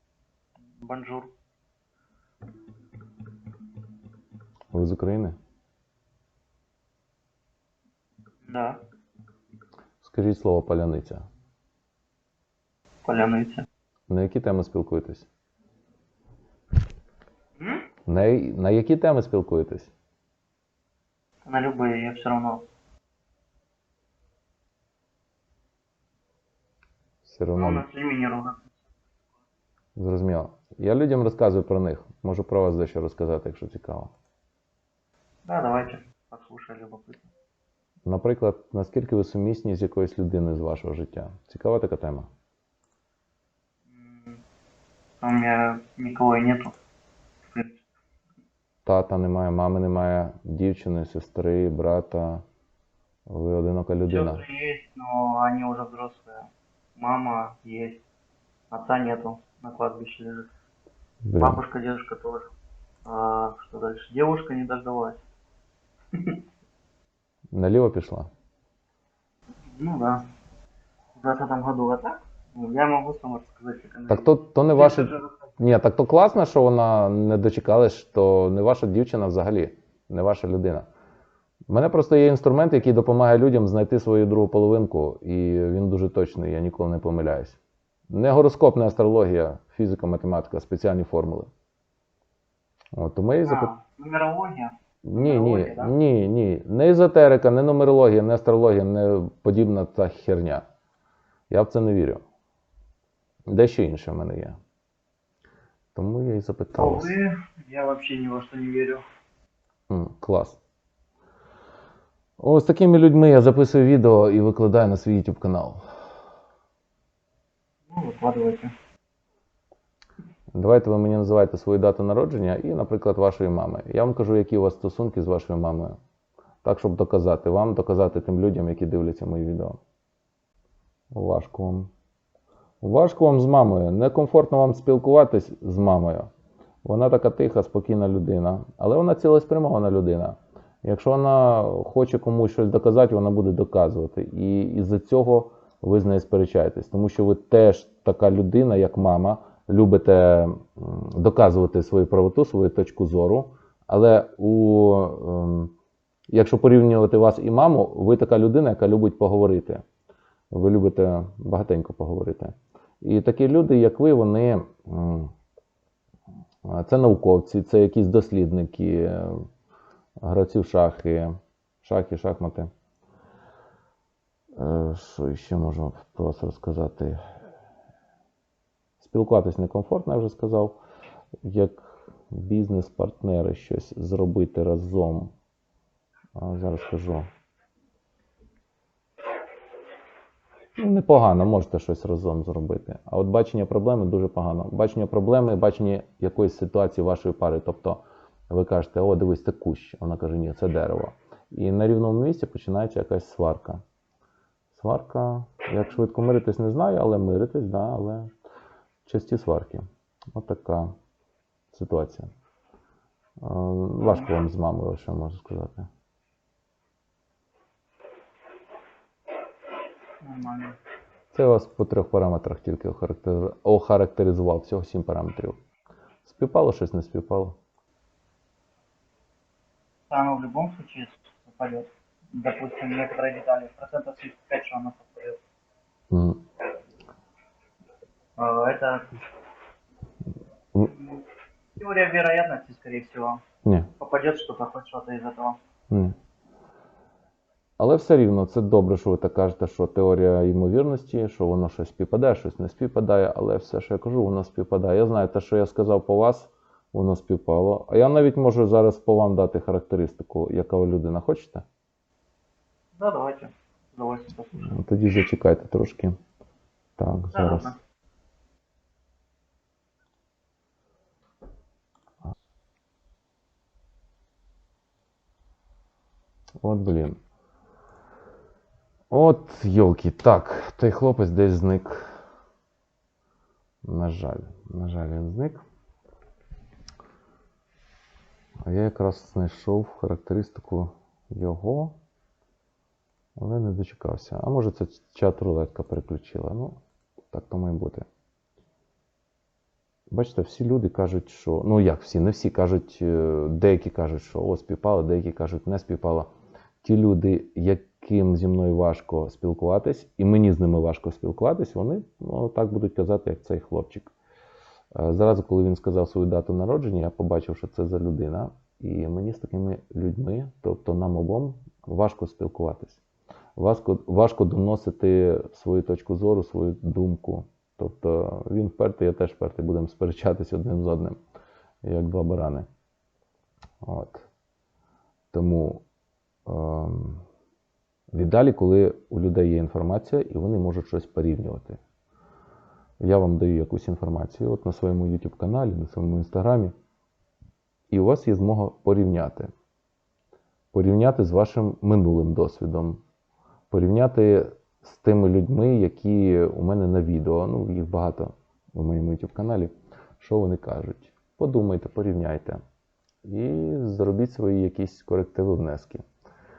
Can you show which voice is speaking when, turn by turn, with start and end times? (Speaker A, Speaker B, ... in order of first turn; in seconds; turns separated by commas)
Speaker A: 0.8-1.3, Speaker B: 4.7-5.3, Speaker A: 8.4-8.8, Speaker B: 10.0-11.2, Speaker A: 13.1-13.7, Speaker B: 14.1-15.3, Speaker A: 17.6-17.8, Speaker B: 18.1-19.9, Speaker A: 21.4-22.6, Speaker B: 27.2-27.8, Speaker A: 27.6-28.6, Speaker B: 30.0-34.1, Speaker A: 35.5-37.3, Speaker B: 38.1-42.3, Speaker A: 43.9-44.4, Speaker A: 45.2-46.8, Speaker A: 47.5-47.8, Speaker B: 48.9-52.4, Speaker B: 53.3-54.4, Speaker A: 54.1-58.0, Speaker A: 58.7-60.5, Speaker B: 61.2-61.6, Speaker A: 61.4-62.5, Speaker A: 63.0-65.2, Speaker B: 67.5-68.3, Speaker A: 69.7-70.2, Speaker A: 71.2-75.3, Speaker B: 74.1-80.9, Speaker B: 81.7-91.5, Speaker B: 93.0-93.7, Speaker A: 93.5-95.9, Speaker B: 95.0-100.7, Speaker B: 101.5-102.2, Speaker B: 103.5-104.6, Speaker B: 106.0-107.2, Speaker A: 106.8-109.0, Speaker B: 109.9-110.6, Speaker B: 112.4-115.8, Speaker A: 117.9-118.7, Speaker B: 120.5-126.0, Speaker B: 126.6-129.8, Speaker B: 131.1-131.9, Speaker B: 132.8-136.3, Speaker B: 136.8-155.7, Speaker B: 156.3-159.8, Speaker B: 160.5-165.3, Speaker B: 166.7-169.4, Speaker B: 170.2-172.7, Speaker B: 174.6-177.2, Speaker B: 179.0-180.8, Speaker B: 181.4-185.3, Speaker B: 186.4-187.3, Speaker B: 190.8-203.8, Speaker B: 204.7-208.3, Speaker B: 209.1-209.8, Speaker B: 210.3-210.9, Speaker B: 211.7-212.3, Speaker B: 213.4-215.9, Speaker A: 214.0-214.4, Speaker A: 220.2-220.8, Speaker B: 221.3-225.6, Speaker B: 226.2-227.6, Speaker A: 230.1-235.4, Speaker B: 236.1-236.4, Speaker A: 238.4-239.2, Speaker A: 240.8-241.2, Speaker A: 241.8-243.4, Speaker B: 243.6-243.9, Speaker A: 244.0-245.6, Speaker B: 247.8-261.6, Speaker A: 263.0-264.7, Speaker B: 264.6-266.1, Speaker B: 267.0-267.7, Speaker A: 267.3-267.8, Speaker B: 276.6-277.2, Speaker B: 279.1-282.1, Speaker B: 283.8-285.6, Speaker B: 288.6-292.0, Speaker B: 293.4-296.8, Speaker B: 297.3-298.1, Speaker B: 300.1-306.3, Speaker B: 306.8-314.1, Speaker B: 314.9-323.0, Speaker B: 323.6-331.2, Speaker B: 331.8-332.7, Speaker B: 333.8-334.3, Speaker B: 335.3-335.8, Speaker B: 336.5-337.2, Speaker B: 338.1-341.8, Speaker B: 343.0-346.7, Speaker B: 347.9-349.5, Speaker B: 350.7-353.0, Speaker B: 353.7-362.6, Speaker B: 363.2-366.0